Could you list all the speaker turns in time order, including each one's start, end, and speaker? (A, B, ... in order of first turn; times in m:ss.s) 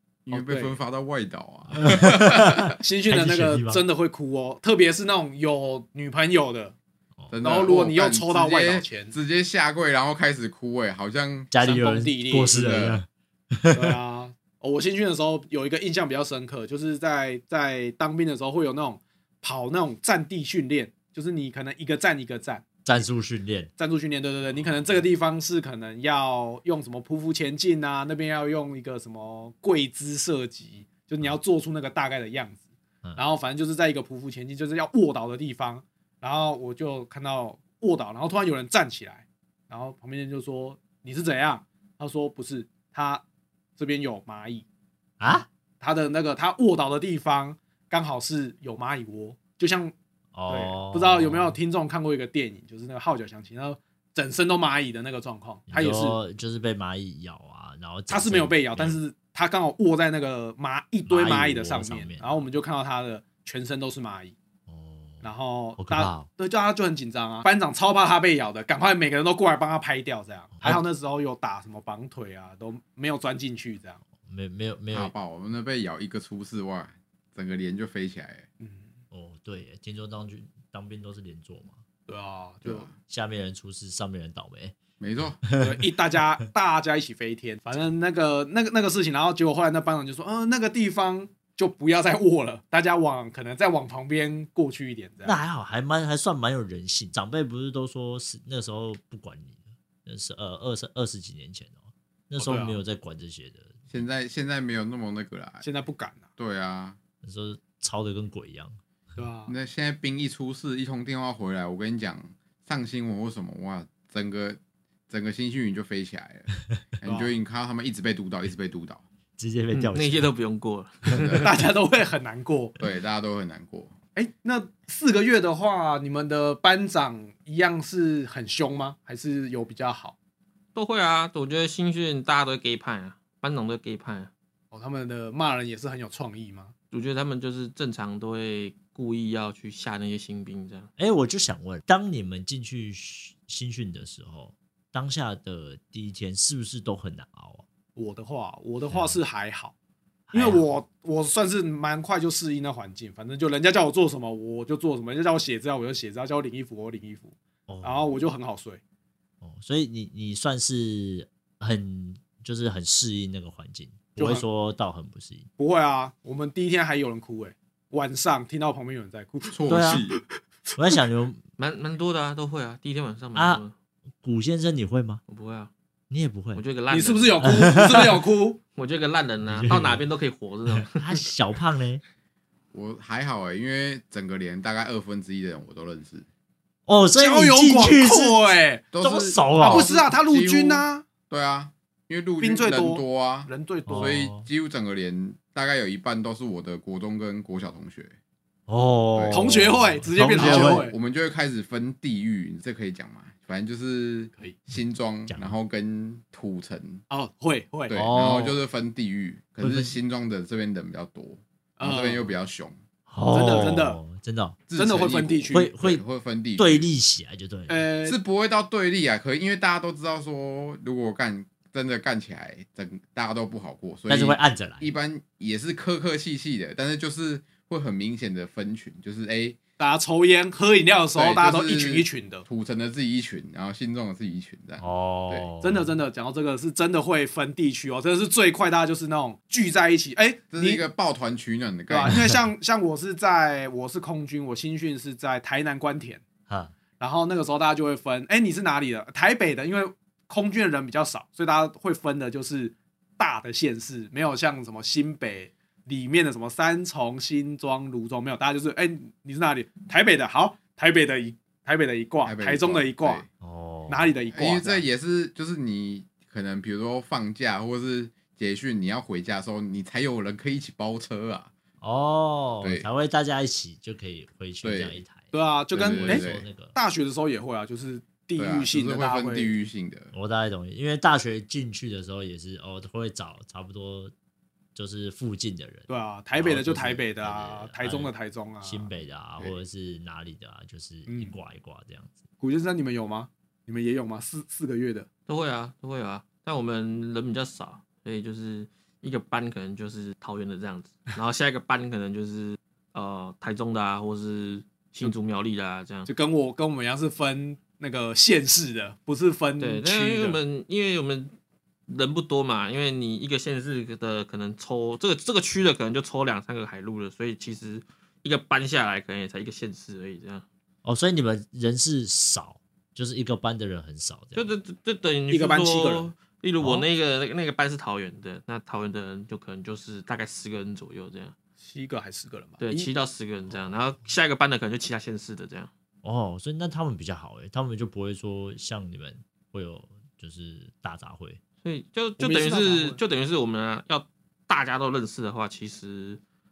0:00.2-0:02.8 A
0:00.3-0:00.8 B
0:01.8-0:03.8 C
0:02.8-0:06.7 B
0:07.3-0:11.5 A
0:07.4-0:09.1 B
0:11.5-0:14.0 C
0:11.6-0:12.5 B
0:12.4-0:13.0 A
0:13.7-0:22.6 B
0:22.8-0:23.7 C
0:23.8-0:32.6 B
0:33.2-0:43.2 B
0:43.8-0:44.6 B
0:45.2-0:45.5 C
0:45.8-0:49.9 B
0:50.3-0:51.6 C
0:50.5-0:56.2 B
0:55.7-0:59.0 C
0:58.1-1:04.3 B
1:01.1-1:02.4 C
1:04.7-1:05.2 C
1:05.2-1:14.0 B
1:05.8-1:06.3 C
1:10.6-1:10.8 C
1:14.2-1:15.1 C
1:14.9-1:18.4 A
1:19.1-1:21.8 C
1:22.1-1:22.9 B
1:22.6-1:22.9 A
1:23.1-1:24.8 C
1:25.0-1:25.4 A
1:25.4-1:25.7 C
1:25.6-1:35.4 B
1:35.2-1:44.0 C
1:42.4-1:42.8 B
1:43.9-1:45.6 A
1:45.6-1:46.2 B
1:46.4-1:47.0 A
1:47.2-1:48.8 C
1:49.2-1:49.5 B
1:49.5-1:54.6 A
1:55.1-1:56.5 A
1:57.0-1:59.0 A
1:57.0-1:57.3 B
1:59.4-2:00.3 C
1:59.7-2:01.5 D
2:01.1-2:01.5 A
2:01.4-2:02.8 B
2:02.8-2:03.9 A
2:04.1-2:10.1 B
2:10.7-2:14.3 D
2:14.7-2:16.7 B
2:16.9-2:20.9 D
2:21.0-2:27.6 C
2:28.0-2:29.7 B
2:28.9-2:29.2 C
2:30.3-2:30.6 C
2:30.3-2:38.8 B
2:37.7-2:38.1 C
2:39.4-2:45.5 C
2:44.2-2:44.4 B
2:45.6-2:50.2 B
2:49.5-2:50.2 A
2:49.7-2:50.0 C
2:50.8-2:51.4 C
2:51.6-2:53.7 D
2:53.3-2:53.6 C
2:54.2-2:55.2 C
2:55.3-2:55.7 D
2:56.1-2:56.6 C
2:56.5-2:57.4 D
2:56.9-2:58.6 B
2:57.4-2:58.2 C
2:58.8-3:01.2 D
2:59.4-3:00.0 C
3:00.7-3:02.0 C
3:02.7-3:06.2 A
3:06.9-3:08.4 C
3:07.2-3:08.8 B
3:08.9-3:18.1 A
3:09.0-3:09.9 C
3:09.6-3:11.0 B
3:12.4-3:14.2 B
3:13.9-3:14.5 C
3:18.7-3:20.9 C
3:19.1-3:19.6 A
3:19.3-3:20.9 B
3:20.3-3:27.0 A
3:25.3-3:25.6 C
3:27.1-3:28.0 B
3:27.9-3:32.8 A
3:27.9-3:28.6 C
3:29.6-3:30.0 C
3:31.8-3:32.3 B
3:33.1-3:34.6 C
3:33.3-3:34.0 B
3:34.7-3:36.9 A
3:34.7-3:35.7 B
3:35.5-3:36.0 C
3:36.6-3:37.8 C
3:37.7-3:38.2 B
3:38.0-3:49.6 A
3:44.1-3:44.9 C
3:49.8-3:52.4 B
3:51.1-3:55.5 A
3:54.8-3:55.9 C
3:55.6-4:00.8 B
4:00.5-4:02.2 A
4:01.9-4:06.2 B
4:07.0-4:23.2 B
4:22.2-4:23.3 A
4:23.4-4:24.1 C
4:23.9-4:24.8 B
4:24.3-4:31.5 A
4:31.8-4:35.3 C
4:32.6-4:32.8 A
4:34.6-4:35.0 A
4:35.3-4:39.5 B
4:35.7-4:36.4 A
4:35.9-4:36.7 C
4:38.4-4:40.1 A
4:40.1-4:44.1 C
4:44.7-4:52.2 C
4:45.9-4:48.9 B
4:51.1-4:51.3 B
4:52.4-4:55.1 B
4:55.3-5:06.1 D
5:06.1-5:10.4 B
5:09.6-5:11.3 D
5:11.9-5:20.4 D
5:20.8-5:24.5 C
5:24.3-5:31.3 D
5:25.3-5:26.1 B
5:26.6-5:26.9 C
5:31.6-5:32.9 B
5:32.6-5:35.7 D
5:36.0-5:41.4 C
5:41.6-5:46.2 D
5:42.2-5:43.0 B